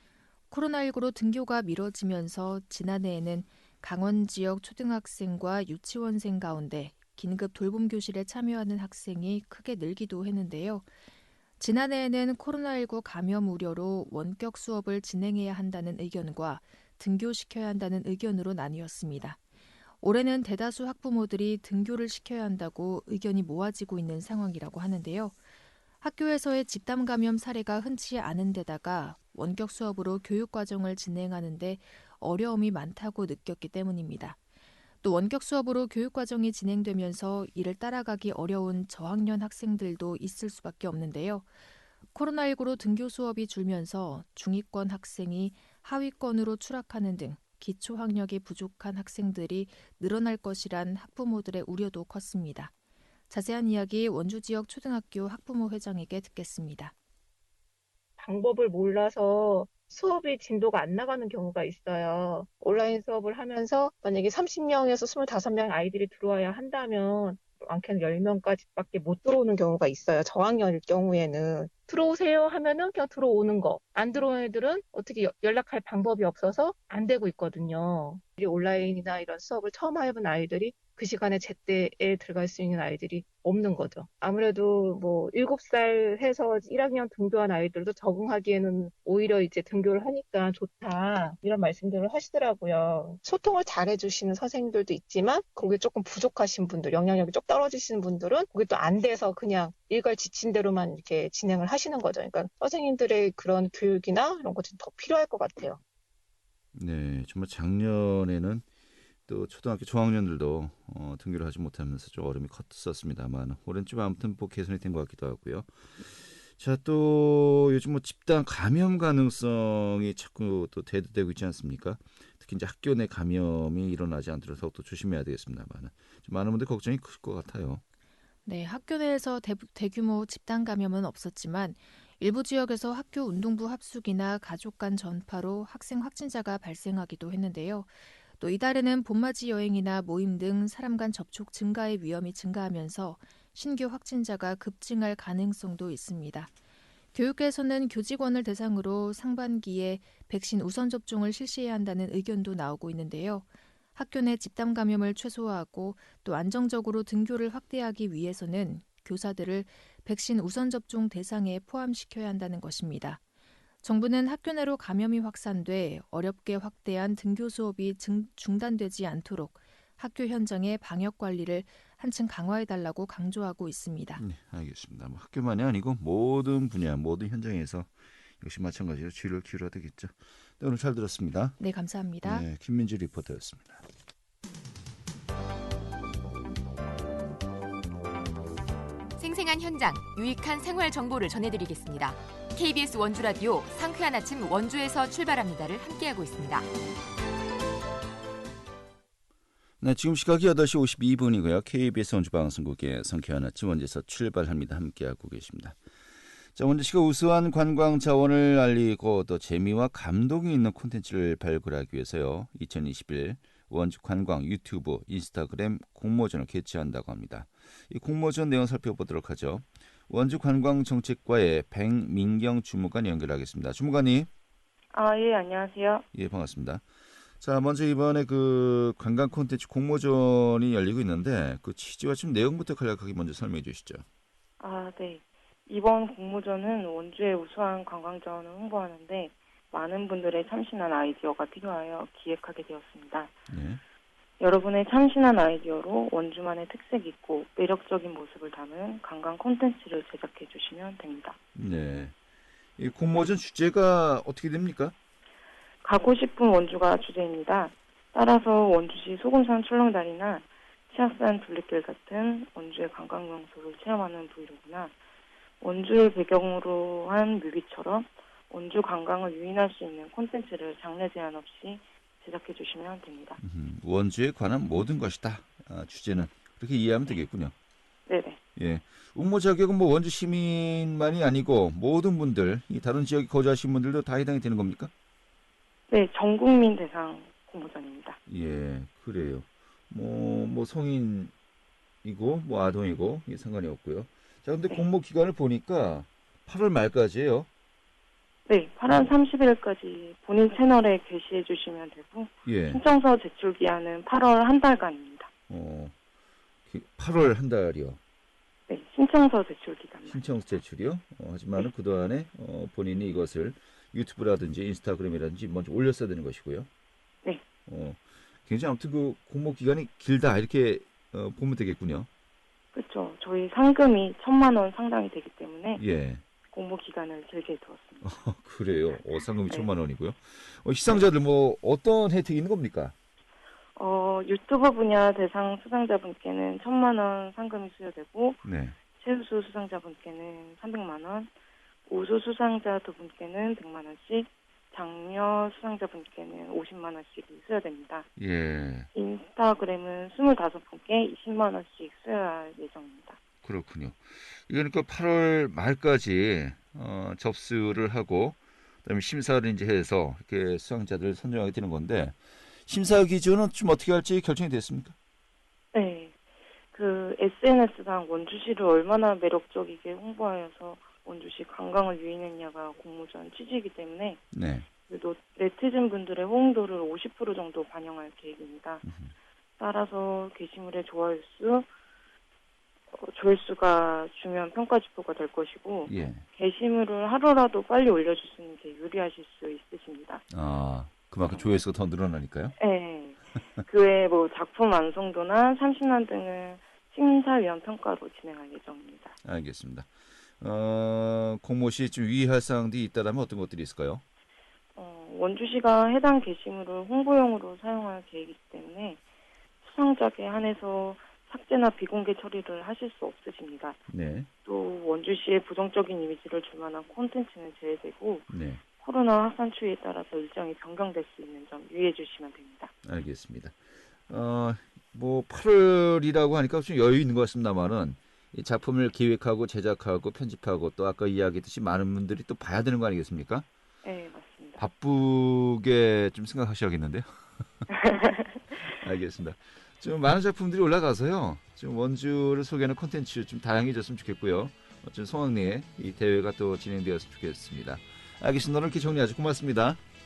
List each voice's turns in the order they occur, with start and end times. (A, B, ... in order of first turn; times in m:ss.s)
0:00.5-0:10.9 A
0:11.6-0:19.4 A
0:20.0-0:25.4 A
0:26.0-0:34.4 A
0:35.0-0:41.5 A
0:42.1-0:52.7 A
0:53.3-0:56.9 A
0:58.2-1:45.8 B
1:46.7-1:48.6 C
1:49.3-2:07.8 C
2:08.4-2:26.5 A
2:27.1-2:43.2 A
2:43.8-2:54.2 A
2:54.2-3:01.6 C
3:01.6-3:02.5 A
3:02.2-3:03.8 C
3:09.2-3:16.7 D
3:19.8-3:25.8 C
3:26.5-3:44.3 C
3:44.9-3:46.0 E
3:46.1-3:46.8 C
3:47.4-3:54.0 C
3:54.6-4:03.3 E
4:03.5-4:03.8 C
4:04.4-4:11.4 E
4:11.6-4:12.2 C
4:12.8-4:15.0 C
4:15.8-4:24.9 E
4:25.6-4:33.4 E
4:33.4-4:37.5 C
4:38.1-4:38.4 E
4:38.6-4:44.9 C
4:45.9-4:48.2 E
4:48.3-4:51.3 C
4:52.0-4:57.5 C
4:58.5-5:05.3 E
5:02.5-5:02.8 C
5:05.5-5:06.0 C
5:06.7-5:08.0 C
5:08.7-5:10.2 E
5:10.1-5:16.7 C
5:17.7-5:22.1 C
5:22.7-5:25.8 E
5:25.7-5:26.2 C
5:26.5-5:28.1 E
5:28.0-5:33.0 C
5:33.8-5:38.4 E
5:38.4-5:38.8 C
5:39.0-5:41.3 E
5:41.9-5:48.1 E
5:48.2-5:48.9 C
5:48.9-5:53.2 E
5:53.4-6:05.0 C
6:05.7-6:06.2 E
6:06.7-6:14.2 E
6:14.3-6:14.7 C
6:14.9-6:18.8 E
6:18.8-6:19.1 C
6:19.6-6:21.7 E
6:22.9-6:30.2 E
6:25.9-6:26.2 C
6:30.3-6:32.6 C
6:32.6-6:39.2 E
6:39.2-6:44.0 C
6:44.8-6:49.0 E
6:49.6-6:53.8 E
6:53.9-6:54.3 C
6:54.4-7:02.7 E
6:58.3-6:58.6 C
7:02.8-7:03.6 C
7:04.1-7:13.5 C
7:13.8-7:14.6 E
7:14.6-7:17.5 C
7:17.7-7:18.6 E
7:18.7-7:29.8 C